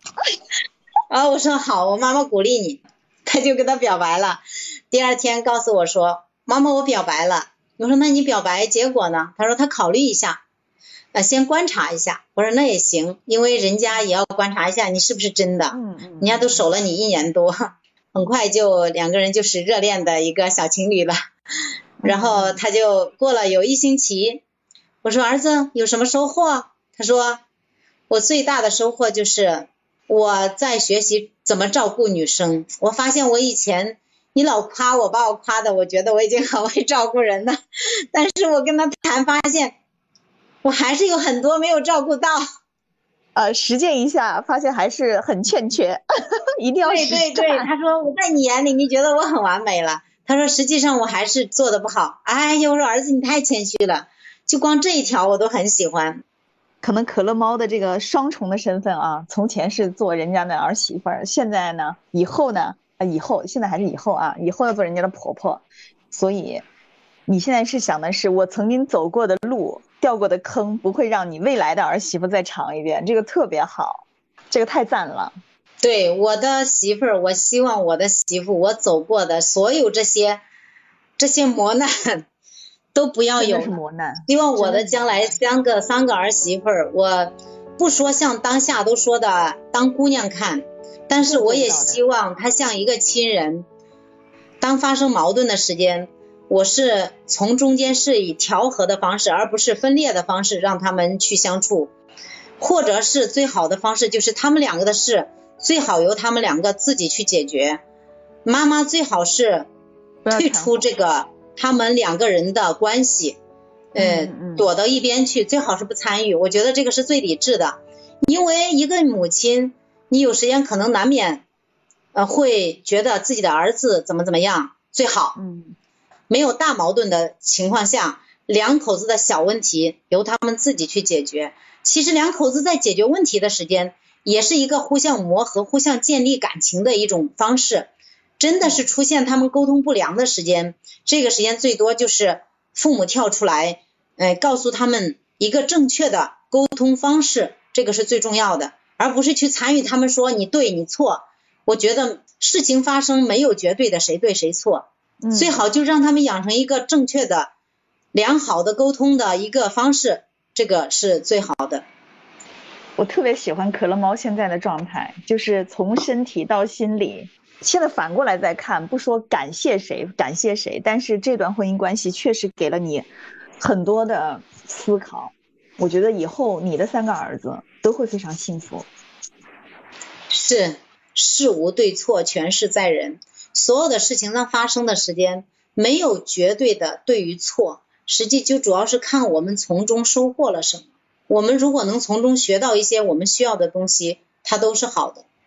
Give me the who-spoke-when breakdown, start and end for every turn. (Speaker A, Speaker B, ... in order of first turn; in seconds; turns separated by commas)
Speaker A: 1.1-10.4, Speaker A: 11.1-17.6, Speaker B: 15.7-16.7, Speaker A: 18.1-21.2, Speaker B: 22.0-22.6, Speaker A: 22.0-24.4, Speaker A: 25.0-27.4, Speaker A: 28.1-37.6, Speaker A: 38.1-39.8, Speaker A: 40.6-42.4, Speaker B: 43.4-46.0, Speaker B: 46.6-47.7, Speaker A: 46.9-56.2, Speaker B: 56.8-66.7, Speaker B: 67.3-75.4, Speaker A: 75.8-80.4, Speaker A: 81.2-82.2, Speaker A: 82.9-83.7, Speaker B: 83.4-85.3, Speaker A: 84.3-93.7, Speaker B: 91.2-92.0, Speaker A: 94.6-101.9, Speaker A: 102.6-107.8, Speaker A: 108.5-109.7, Speaker B: 110.2-110.8, Speaker A: 110.3-113.4, Speaker A: 114.0-121.5, Speaker B: 114.0-114.7, Speaker A: 122.1-125.4, Speaker B: 125.4-125.8, Speaker A: 126.3-157.5, Speaker B: 155.2-155.7, Speaker A: 158.1-161.8, Speaker B: 163.0-173.1, Speaker B: 173.6-178.9, Speaker A: 180.3-195.3